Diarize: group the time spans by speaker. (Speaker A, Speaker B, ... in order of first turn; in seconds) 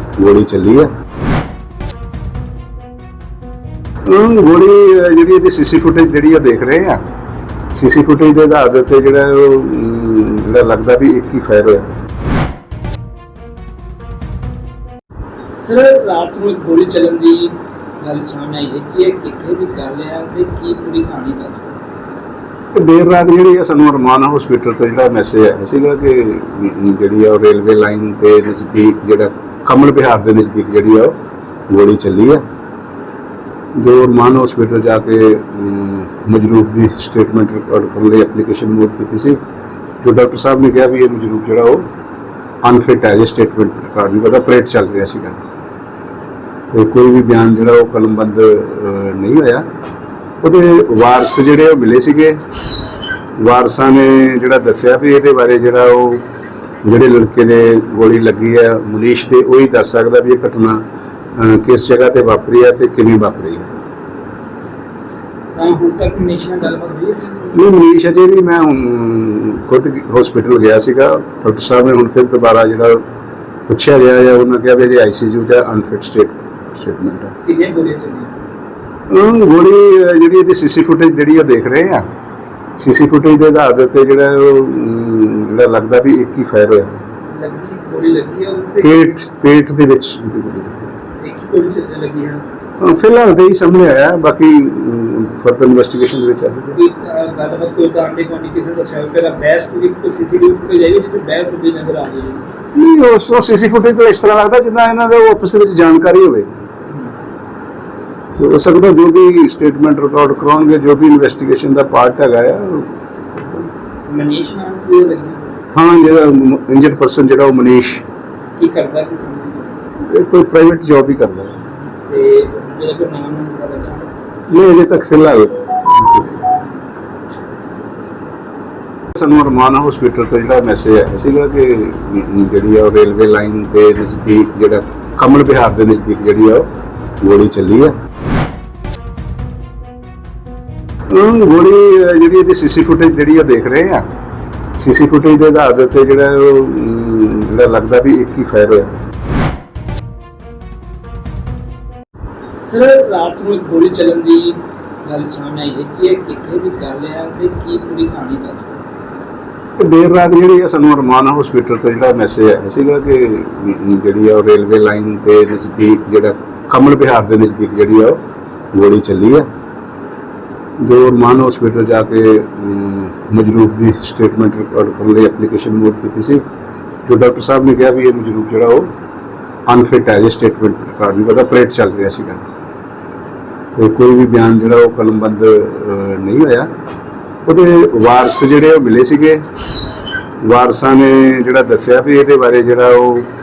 Speaker A: 0.2-0.9, 4.0-7.0, 7.7-11.9, 22.7-31.2, 31.7-32.4, 33.8-39.4, 40.0-41.9, 42.6-45.4, 46.7-49.7, 50.4-52.4, 53.4-56.2, 56.8-63.7, 67.5-73.0, 73.7-77.3, 79.1-82.0, 82.8-87.0, 88.8-90.9, 92.8-96.8, 102.7-106.5, 108.3-113.7, 115.7-118.0, 120.0-121.6, 124.5-126.4, 129.1-136.7, 137.2-138.0, 141.1-144.1, 144.8-148.9, 159.8-168.2, 168.7-169.5, 170.8-176.4, 177.1-178.9, 179.7-182.4, 183.8-186.7, 187.5-189.5, 190.4-193.3
Speaker B: 15.6-21.7, 65.5-67.6, 77.4-78.3, 87.3-89.2, 91.2-92.4, 96.7-102.5, 106.9-107.1, 114.1-115.6, 118.6-119.8, 122.0-124.1, 126.3-127.8, 152.6-158.8